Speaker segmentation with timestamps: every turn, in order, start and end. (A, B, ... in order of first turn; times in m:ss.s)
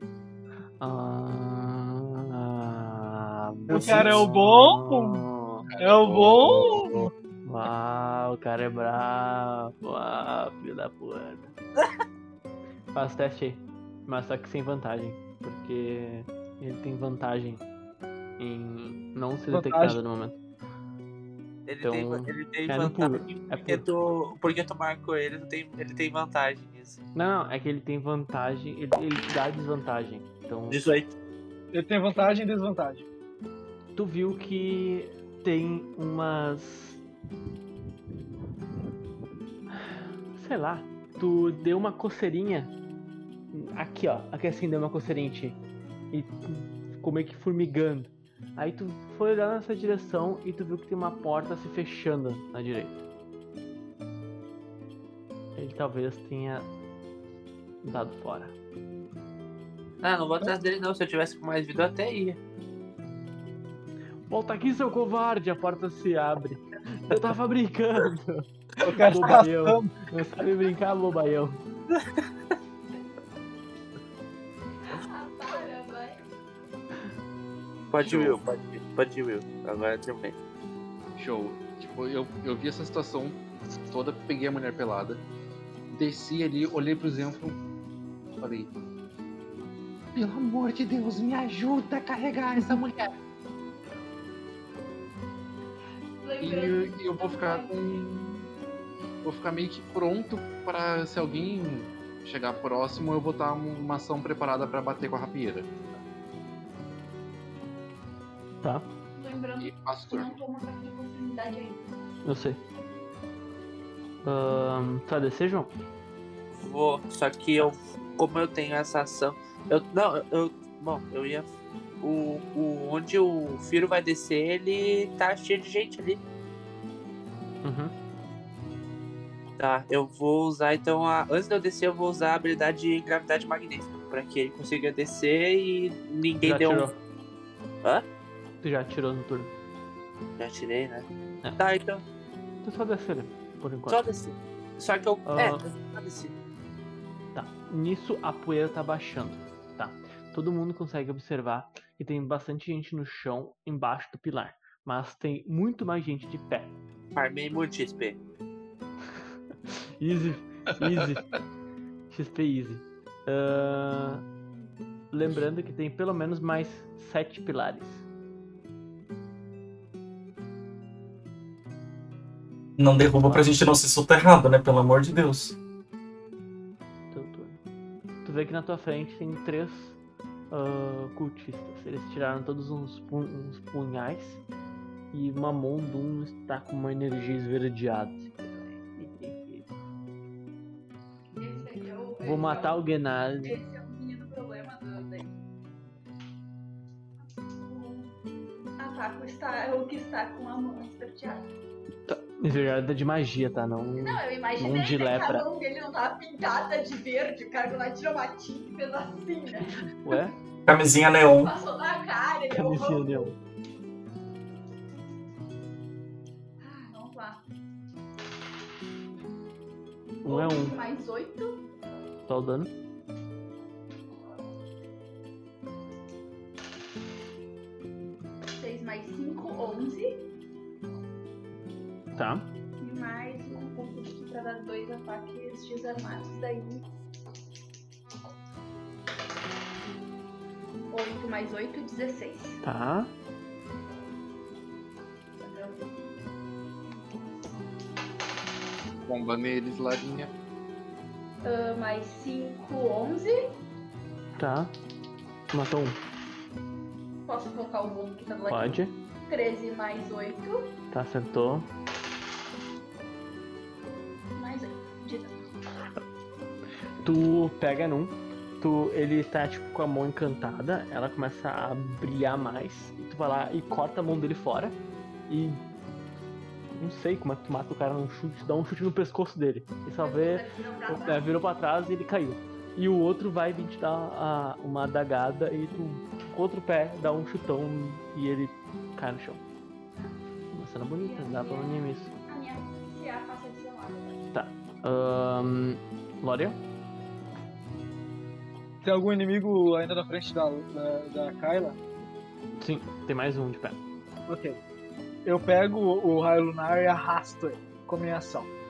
0:00.8-0:05.7 A
0:03.7-0:04.2 B
0:03.7-0:05.2 C
0:05.7-0:07.1 D
0:05.8-0:07.1 C
0:07.4-0:11.5 A
0:12.9-0:17.6 A
0:18.4-0:20.4 A
0:19.5-0:20.0 C
0:21.7-0:27.0 E
0:21.8-0:23.8 A
0:27.2-0:30.9 A
0:30.7-0:31.1 E
0:31.7-0:33.1 C
0:34.0-0:37.0 A
0:39.9-0:42.7 A
0:43.5-0:45.6 A
0:46.1-0:53.0 A
0:55.6-0:56.7 A
0:57.8-0:58.5 A
1:00.0-1:02.4 E
1:04.3-1:11.6 A
1:08.8-1:10.0 C
1:14.9-1:16.2 F
1:17.9-1:20.4 E
1:18.0-1:18.4 D
1:21.2-1:25.2 D
1:25.9-1:27.6 D
1:28.4-1:28.7 D
1:30.2-1:33.2 D
1:36.2-1:38.0 F
1:36.4-1:38.5 D
1:39.2-1:45.7 D
1:48.6-1:48.9 A
1:49.2-1:51.8 F
1:49.6-1:50.4 D
1:52.2-1:52.6 A
1:54.2-1:55.7 A
1:56.5-2:01.5 E
2:02.0-2:06.2 E
2:07.6-2:07.9 A
2:09.6-2:16.9 E
2:16.4-2:17.0 A
2:18.6-2:19.5 A
2:20.4-2:21.1 E
2:21.6-2:22.0 E
2:22.6-2:24.0 A
2:23.9-2:26.4 E
2:25.3-2:25.6 A
2:27.4-2:36.8 A
2:37.2-2:38.2 E
2:39.7-2:41.3 A
2:42.1-2:44.2 A
2:45.1-2:48.0 A
2:52.8-2:55.6 B
2:53.2-2:53.5 A
2:57.1-2:57.6 A
2:58.2-3:00.0 A
3:00.5-3:04.4 A
3:05.1-3:09.7 A
3:11.3-3:12.8 F
3:11.4-3:11.7 A
3:12.2-3:13.6 A
3:13.4-3:15.4 F
3:17.6-3:18.1 F
3:18.8-3:21.5 F
3:22.1-3:25.5 A
3:24.0-3:29.8 F
3:29.7-3:30.4 A
3:30.7-3:31.5 B
3:31.3-3:33.4 F
3:32.5-3:33.4 A
3:36.6-3:37.4 F
3:40.2-3:40.8 A
3:40.2-3:41.6 F
3:42.3-3:42.7 A
3:48.6-3:50.1 F
3:52.2-3:52.5 A
3:52.8-3:56.9 F
4:00.9-4:02.6 F
4:02.6-4:03.1 A
4:05.4-4:05.9 F
4:09.0-4:10.3 D
4:11.4-4:13.4 F
4:14.4-4:14.7 A
4:15.5-4:16.0 A
4:17.3-4:20.7 F
4:18.5-4:18.9 A
4:20.9-4:21.7 A
4:24.4-4:25.4 F
4:27.0-4:35.6 A
4:36.8-4:49.4 A
4:40.0-4:41.3 F
4:50.5-4:52.1 A
4:51.0-4:54.2 F
4:54.3-4:56.6 A
4:58.8-5:01.8 C
5:02.6-5:03.8 A
5:04.3-5:04.6 C
5:05.3-5:08.5 C